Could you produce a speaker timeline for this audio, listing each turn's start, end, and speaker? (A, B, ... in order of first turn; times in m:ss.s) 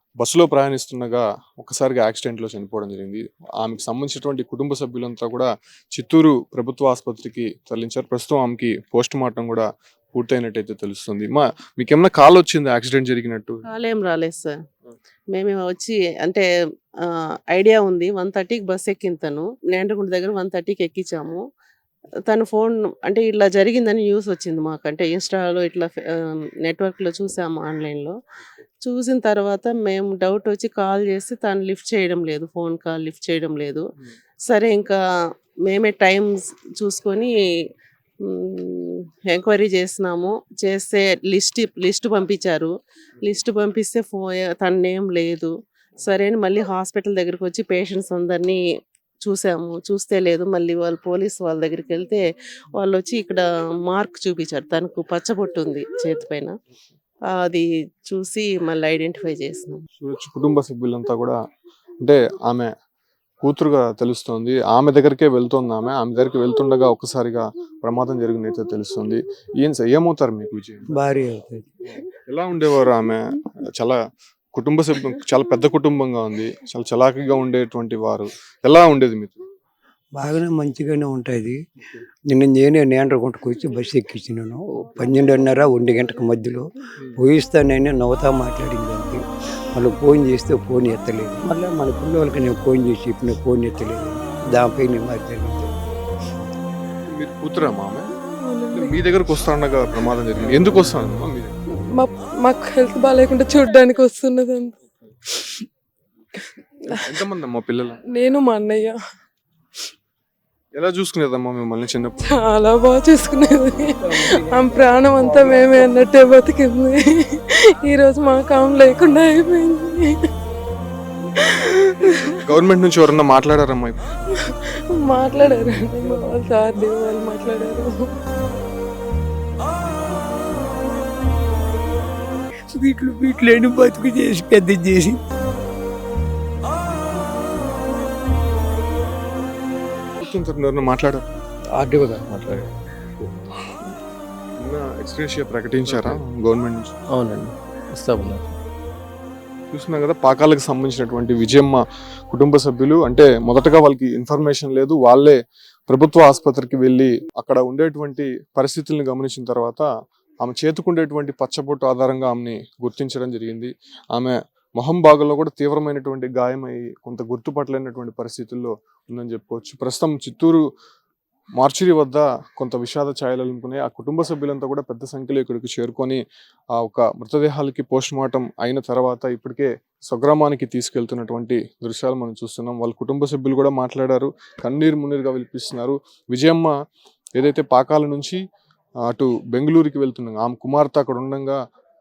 0:00.2-0:13.6 A
0:13.7-0:14.6 B
0:15.3-0:16.4 B
0:17.0-0:21.4 B
0:22.3-0:28.2 B
0:28.8-0:33.9 B
0:34.5-0:35.0 B
0:35.7-0:37.3 B
0:38.3-0:42.7 B
0:43.2-0:48.6 B
0:49.2-0:52.2 B
0:52.8-0:56.6 B
0:57.4-0:59.8 B
1:00.0-1:01.4 A
1:02.0-1:02.7 A
1:03.4-1:10.9 A
1:10.9-1:11.7 C
1:11.9-1:14.0 A
1:14.5-1:19.4 A
1:20.2-1:21.6 C
1:22.3-1:29.2 C
1:29.8-1:35.9 C
1:37.1-1:38.1 A
1:38.2-1:39.0 D
1:38.7-1:41.5 A
1:41.9-1:44.8 D
1:45.3-1:45.6 D
1:46.4-1:47.2 D
1:46.9-1:48.0 A
1:48.1-1:49.0 D
1:50.7-1:52.2 A
1:52.2-2:00.3 D
2:01.4-2:02.4 D
2:02.4-2:04.1 A
2:04.3-2:08.1 D
2:12.7-2:15.2 C
2:20.2-2:21.2 A
2:21.9-2:22.7 E
2:24.6-2:26.9 A
2:25.9-2:26.2 E
2:27.1-2:28.5 E
2:29.7-2:35.4 A
2:35.9-2:39.9 A
2:40.4-2:50.6 A
2:51.6-2:56.2 A
2:56.8-3:06.7 A
3:07.4-3:08.4 A
3:09.1-3:11.6 A